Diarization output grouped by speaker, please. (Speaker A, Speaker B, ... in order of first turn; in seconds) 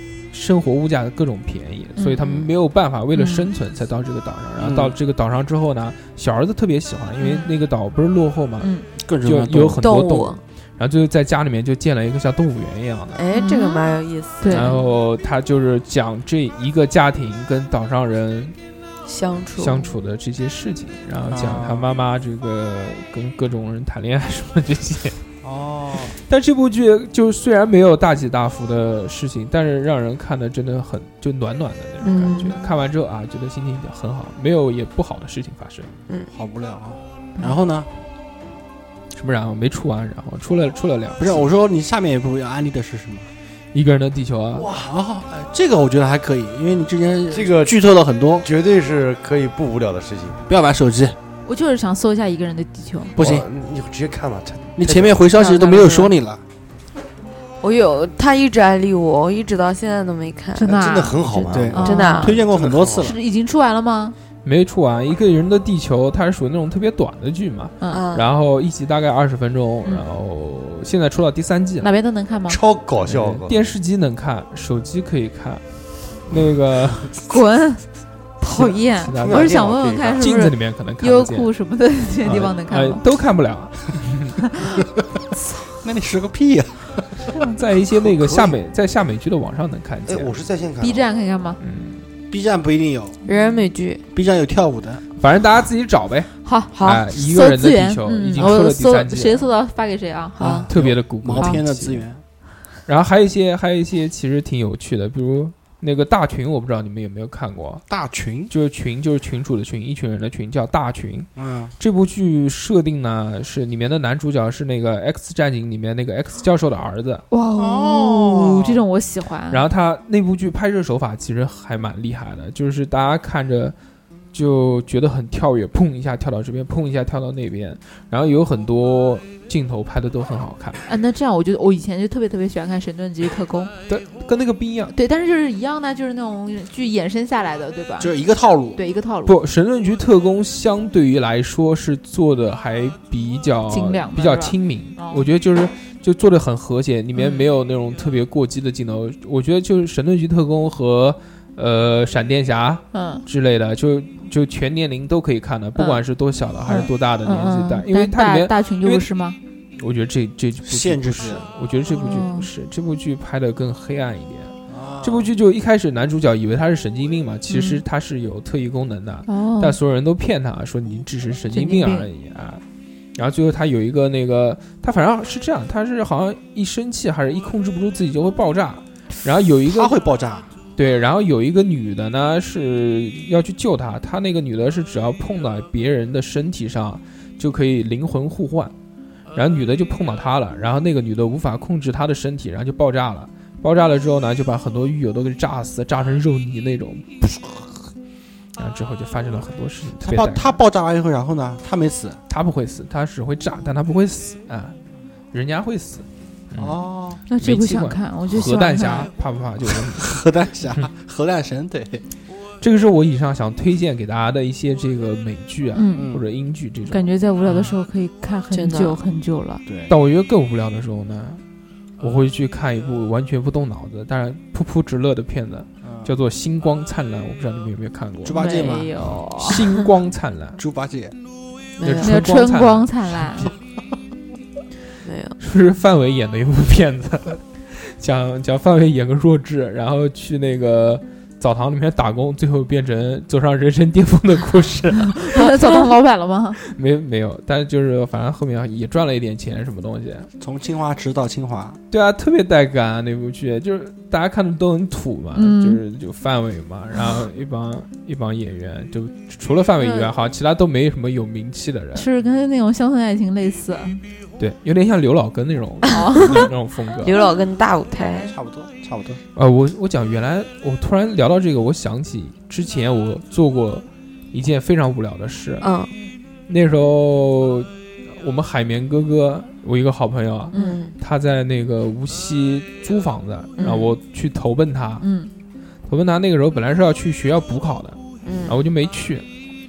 Speaker A: 0.3-8.7, 9.2-13.2, 14.5-18.6, 19.6-25.2, 26.2-35.9, 39.1-41.5, 43.7-44.7, 64.4-71.9, 73.0-75.6, 76.3-77.1, 78.4-79.6, 80.2-81.5, 82.2-84.4, 87.5-90.3, 91.6-92.0, 95.2-99.5, 100.7-102.0, 102.9-107.8, 108.5-117.3, 119.5-123.8, 124.3-130.8, 133.9-134.9, 139.3-159.1, 159.8-172.6, 173.2-179.9, 180.8-188.7, 189.3-197.9, 198.6-200.6, 202.3-204.8, 205.3-206.8, 207.4-210.2, 212.6-217.7, 219.9-221.4, 222.0-228.4, 229.4-230.6, 231.8-233.5, 235.4-245.5, 246.7-250.3, 251.9-262.1, 264.4-267.1, 269.4-275.7, 276.5-285.1, 285.9-289.2
Speaker B: 2.0-2.5, 3.1-3.5, 7.2-7.5, 8.6-8.9, 13.3-14.8, 51.5-53.1, 60.5-62.4, 63.0-64.2, 71.8-72.6, 77.3-77.8, 78.4-83.0, 90.8-91.6, 96.5-100.4, 117.3-119.6, 130.9-133.7, 134.9-138.1, 138.8-139.4, 143.7-145.3, 147.2-147.4, 152.9-153.2, 155.8-156.0, 156.7-159.4, 161.9-162.5, 167.5-167.8, 169.3-169.8, 171.5-172.1, 207.3-209.1, 215.8-216.1, 216.9-219.6, 228.4-229.6, 232.0-233.5, 245.1-246.6, 255.3-255.8, 259.8-260.1, 261.9-264.0, 265.9-266.5, 267.9-268.3, 280.5-280.8, 285.0-285.3
Speaker C: 4.6-4.9, 9.0-9.8, 21.3-21.9, 25.4-26.2, 36.3-37.9, 41.2-43.3, 44.7-48.5, 50.5-51.2, 53.2-53.5, 54.8-56.4, 61.5-63.2, 85.8-87.3, 92.3-93.2, 94.1-95.0, 100.4-102.2, 107.9-108.5, 111.4-111.7, 117.6-118.8, 138.0-138.8, 160.6-161.5, 164.7-165.3, 179.7-180.5, 200.0-202.2, 206.6-207.2, 209.8-212.0, 215.9-216.2, 219.7-219.9, 225.8-226.1, 228.2-229.0, 230.6-231.1, 250.4-251.8, 268.3-269.2
Speaker D: 9.8-10.4, 13.2-14.8, 19.1-19.9, 32.0-32.6, 55.3-56.1, 57.6-60.7, 61.3-62.4, 67.9-68.3, 93.3-94.0, 96.7-97.0, 100.4-100.7, 218.5-219.0, 231.8-232.2, 235.0-235.3, 267.0-268.3, 275.6-275.9, 280.5-281.0, 283.6-283.9, 288.2-288.6
Speaker E: 44.6-44.9, 47.3-47.7, 48.4-50.4, 53.2-55.2, 60.7-63.1, 72.5-73.7, 79.2-80.3, 88.2-88.5, 90.1-91.1